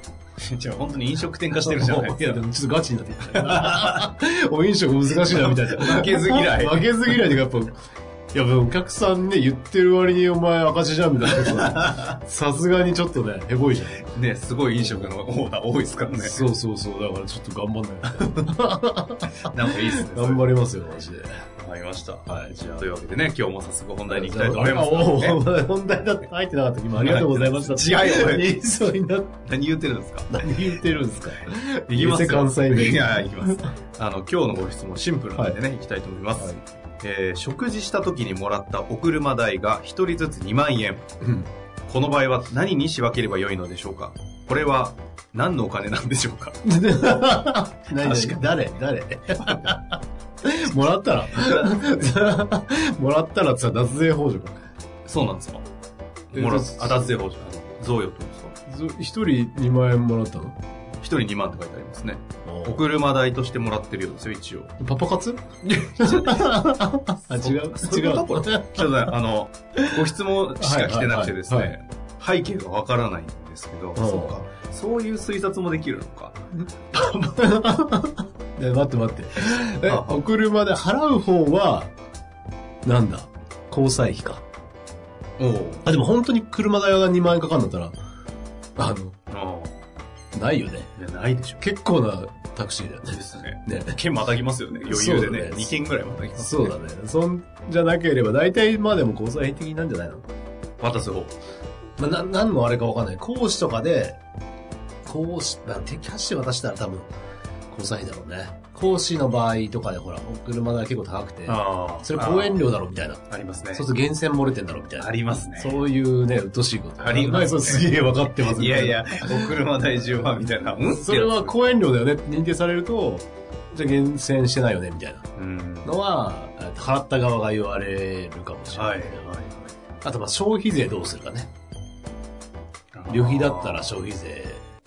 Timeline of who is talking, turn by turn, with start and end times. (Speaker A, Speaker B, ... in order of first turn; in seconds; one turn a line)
Speaker A: 0.4-2.4
Speaker B: 1.6-7.8
Speaker A: 3.3-4.1
Speaker A: 5.2-7.4
Speaker B: 8.3-14.1
Speaker A: 11.4-12.0
Speaker A: 14.1-16.5
Speaker B: 14.8-15.1
Speaker B: 16.1-21.4
Speaker A: 18.1-18.3
Speaker A: 19.4-20.5
Speaker A: 21.6-25.4
Speaker B: 22.3-22.6
Speaker B: 24.1-29.4
Speaker A: 26.9-28.6
Speaker A: 29.4-30.7
Speaker B: 30.3-33.7
Speaker A: 31.9-41.1
Speaker B: 36.4-36.6
Speaker B: 41.2-41.5
Speaker A: 41.9-46.6
Speaker B: 46.6-54.6
Speaker A: 47.9-48.7
Speaker A: 49.4-49.8
Speaker A: 51.3-52.0
Speaker A: 55.0-55.6
Speaker A: 56.3-58.5
Speaker B: 56.3-57.1
Speaker B: 58.7-60.5
Speaker A: 61.0-64.7
Speaker B: 62.4-62.9
Speaker B: 64.8-69.1
Speaker A: 65.7-66.6
Speaker A: 67.3-77.5
Speaker B: 69.8-71.8
Speaker B: 74.0-74.4
Speaker B: 77.4-81.9
Speaker A: 79.8-80.2
Speaker B: 82.8-84.4
Speaker A: 85.4-85.9
Speaker B: 85.8-87.9
Speaker B: 88.8-89.2
Speaker A: 89.3-89.8
Speaker B: 90.3-90.9
Speaker A: 91.0-91.6
Speaker B: 91.6-94.0
Speaker A: 93.2-96.7
Speaker B: 94.8-95.8
Speaker B: 96.3-100.2
Speaker A: 100.8-101.3
Speaker B: 102.0-104.2
Speaker B: 105.0-107.1
Speaker B: 107.7-113.2
Speaker A: 111.5-112.6
Speaker A: 113.3-113.9
Speaker B: 113.7-125.3
Speaker A: 115.0-115.8
Speaker A: 117.0-121.7
Speaker A: 125.4-125.9
Speaker B: 125.8-129.3
Speaker A: 128.7-129.7
Speaker B: 130.0-131.5
Speaker A: 132.9-133.9
Speaker B: 133.1-134.6